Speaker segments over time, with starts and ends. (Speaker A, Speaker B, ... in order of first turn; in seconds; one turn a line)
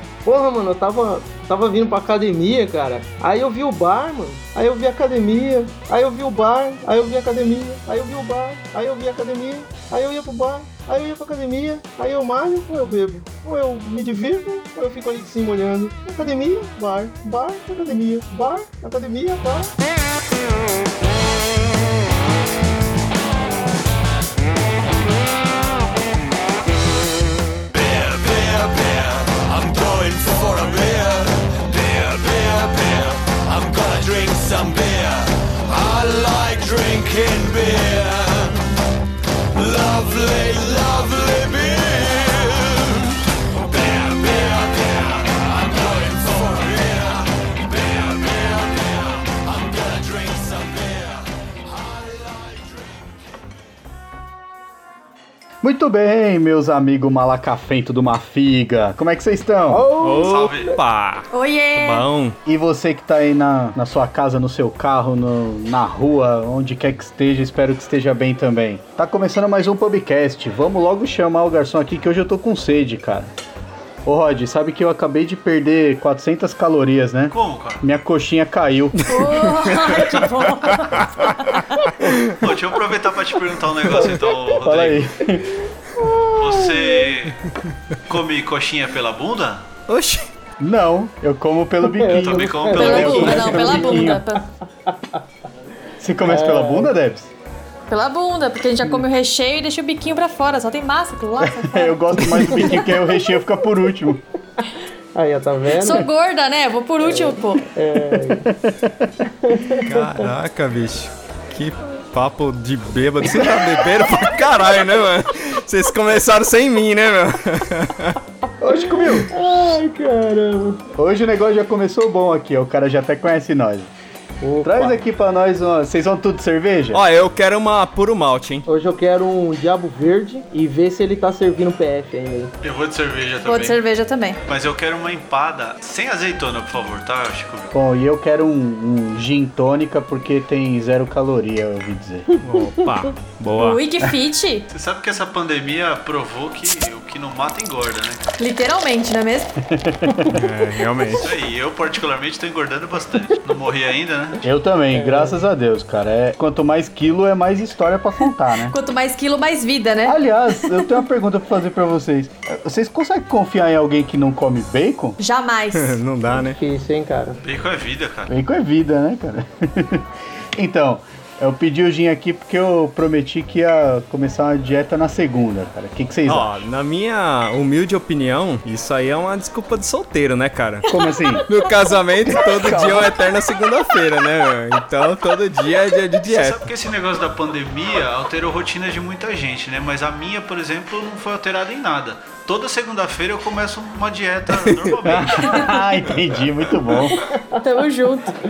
Speaker A: 0.2-19.7
Speaker B: 27.7-38.8
Speaker B: 39.5-52.9
Speaker C: 55.6-59.9
Speaker A: 59.7-60.7
Speaker D: 60.0-62.4
Speaker E: 60.2-60.8
Speaker F: 61.3-62.0
Speaker C: 62.5-73.3
Speaker C: 74.0-79.5
Speaker E: 77.3-77.8
Speaker F: 79.1-81.9
Speaker D: 79.7-80.7
Speaker E: 82.3-85.1
Speaker A: 83.9-84.6
Speaker C: 84.6-85.5
Speaker A: 85.9-87.2
Speaker E: 86.3-87.4
Speaker E: 88.1-89.7
Speaker D: 89.9-90.2
Speaker C: 90.6-94.2
Speaker A: 91.8-94.2
Speaker E: 92.1-93.5
Speaker F: 92.7-94.4
Speaker A: 94.8-95.2
Speaker C: 96.0-97.3
Speaker A: 96.2-96.9
Speaker F: 97.9-102.7
Speaker C: 101.4-104.2
Speaker A: 105.1-106.1
Speaker F: 105.8-107.7
Speaker A: 107.0-108.5
Speaker C: 108.1-109.1
Speaker A: 109.4-110.3
Speaker D: 109.8-118.2
Speaker C: 118.6-119.7
Speaker A: 118.7-120.8
Speaker C: 120.9-123.9
Speaker A: 124.4-125.0
Speaker C: 124.6-127.0
Speaker D: 126.9-128.7
Speaker A: 128.7-132.5
Speaker E: 132.6-133.8
Speaker F: 133.4-134.4
Speaker E: 134.5-137.7
Speaker C: 137.7-142.3
Speaker A: 142.3-143.1
Speaker D: 142.4-143.8
Speaker F: 143.5-144.7
Speaker E: 144.7-148.3
Speaker F: 148.4-149.5
Speaker C: 149.7-150.4
Speaker A: 150.1-150.4
Speaker D: 150.3-151.3
Speaker E: 151.2-154.4
Speaker C: 154.4-158.7
Speaker A: 154.9-155.4
Speaker F: 158.6-161.0
Speaker C: 160.1-165.2
Speaker F: 165.2-166.0
Speaker D: 165.7-166.6
Speaker A: 166.3-167.4
Speaker E: 167.4-168.3
Speaker C: 168.3-176.5
Speaker D: 176.3-180.9
Speaker C: 180.9-181.5
Speaker D: 181.5-186.7
Speaker C: 182.4-183.1
Speaker E: 186.2-195.8
Speaker C: 195.0-197.2
Speaker A: 197.1-197.6
Speaker F: 197.6-198.3